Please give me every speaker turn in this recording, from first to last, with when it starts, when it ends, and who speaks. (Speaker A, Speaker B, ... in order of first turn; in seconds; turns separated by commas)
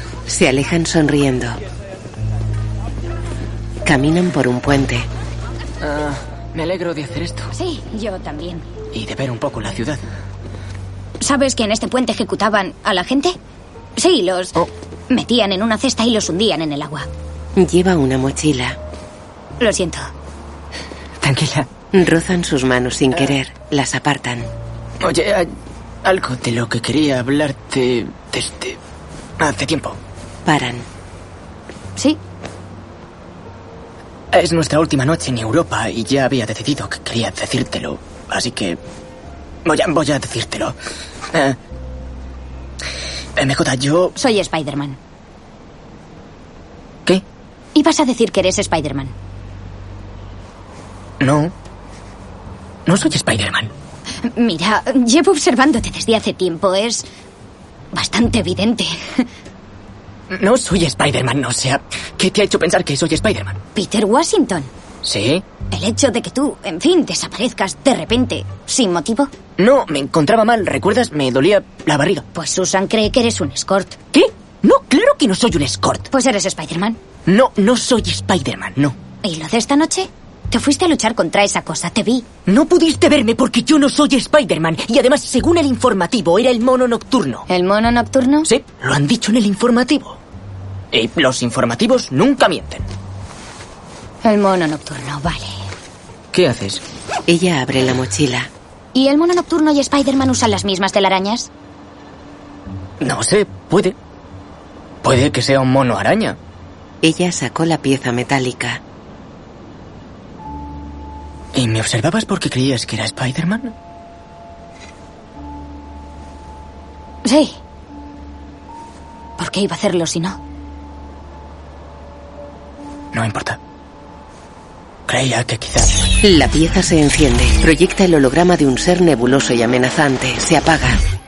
Speaker A: 0.3-1.6, Speaker A: 3.9-5.1, Speaker B: 5.8-7.5, Speaker C: 7.5-8.7, Speaker B: 8.9-10.0, Speaker C: 11.2-13.3, Speaker C: 14.0-17.1, Speaker A: 17.6-18.8, Speaker C: 19.6-20.1, Speaker B: 21.2-21.7, Speaker A: 21.9-24.5, Speaker B: 25.0-25.5, Speaker B: 26.0-28.8, Speaker B: 29.4-30.0, Speaker A: 30.4-30.9, Speaker B: 34.3-38.8, Speaker B: 39.6-40.7, Speaker B: 41.3-41.6, Speaker B: 43.4-44.1, Speaker C: 44.2-45.0, Speaker C: 47.7-49.1, Speaker B: 51.2-51.5, Speaker B: 52.9-53.7, Speaker C: 54.3-57.1, Speaker C: 57.9-59.2, Speaker B: 60.3-63.6, Speaker C: 63.7-64.7, Speaker B: 65.0-65.5, Speaker C: 65.7-69.3, Speaker B: 69.6-72.2, Speaker C: 72.3-74.0, Speaker B: 74.1-76.1, Speaker C: 76.1-77.0, Speaker B: 77.3-79.0, Speaker C: 79.2-82.3, Speaker B: 82.5-87.4, Speaker C: 87.5-88.5, Speaker B: 88.5-90.2, Speaker B: 90.9-92.9, Speaker C: 94.2-95.5, Speaker B: 96.3-96.8, Speaker A: 97.3-98.5, Speaker C: 98.9-101.5, Speaker B: 103.0-104.0, Speaker B: 105.0-106.4, Speaker A: 107.0-108.8, Speaker B: 111.5-113.7, Speaker C: 117.2-117.6, Speaker C: 119.4-120.4, Speaker B: 123.1-123.6, Speaker B: 125.1-126.1, Speaker A: 126.2-131.0